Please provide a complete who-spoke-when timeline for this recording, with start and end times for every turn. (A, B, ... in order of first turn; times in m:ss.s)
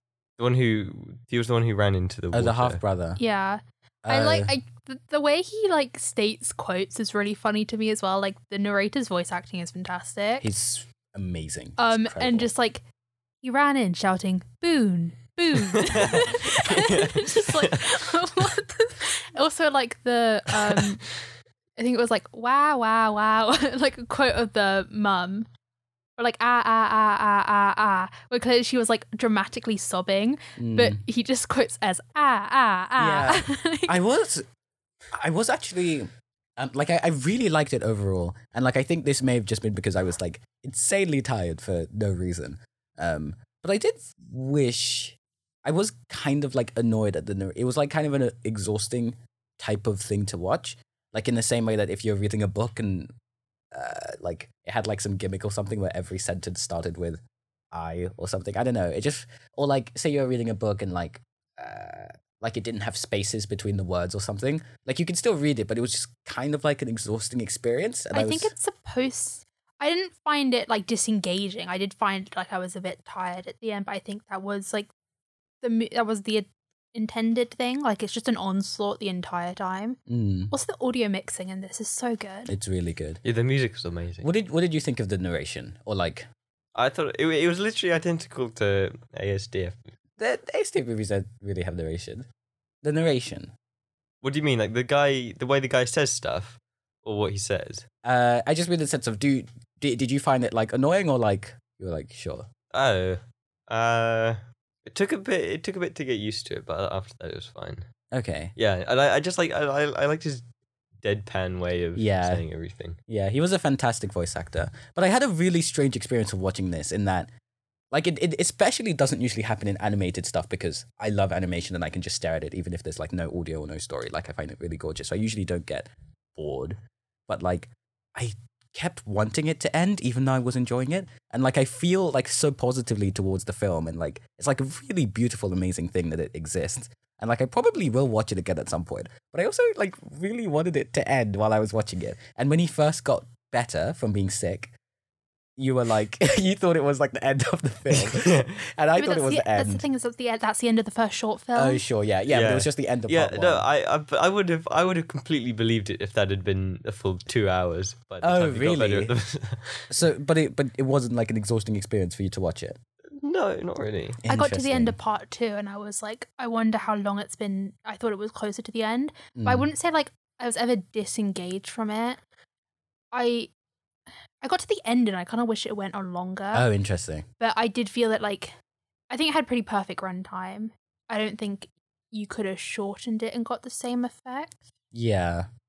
0:00.4-0:02.8 A
0:02.3-0:03.2 B
0:03.2-0:10.4 C
0:04.0-0:04.5 B
0:10.4-0:12.5 B
0:11.8-0:12.8 C
0:13.4-0:21.0 C
0:15.7-0:17.8 A
0:21.8-0:25.5 C
0:26.2-0:34.0 C
0:30.6-0:31.0 B
0:33.0-0:34.4 B
0:35.1-0:53.1 B
0:53.7-0:57.2 B
0:57.7-1:08.5 B
1:08.1-1:14.9 C
1:15.6-1:20.0 C
1:20.1-1:20.5 B
1:20.5-1:22.5 C
1:22.5-1:23.2 B
1:23.2-1:24.3 A
1:24.2-1:26.3 B
1:26.8-1:29.9 A
1:30.2-1:32.3 B
1:32.8-1:33.5 B
1:34.2-1:37.8 A
1:38.0-1:42.5 B
1:42.7-1:47.8 A
1:48.1-1:48.5 B
1:48.6-1:50.4 A
1:51.0-1:53.0 A
1:52.0-1:52.4 B
1:53.1-1:57.3 B
1:57.9-2:24.7 B
2:25.6-2:29.8 B
2:27.9-2:28.6 A
2:29.0-2:31.8 C
2:31.5-2:33.6 B
2:32.3-2:39.9 A
2:38.2-2:39.1 B
2:39.9-2:42.8 B
2:43.1-2:44.2 A
2:44.2-2:44.9 B
2:44.3-2:52.2 C
2:49.4-2:49.7 B
2:53.1-2:53.5 C
2:54.4-2:56.6 C
2:56.5-2:57.2 B
2:57.4-2:58.6 C
2:59.1-3:04.6 C
3:04.9-3:05.5 B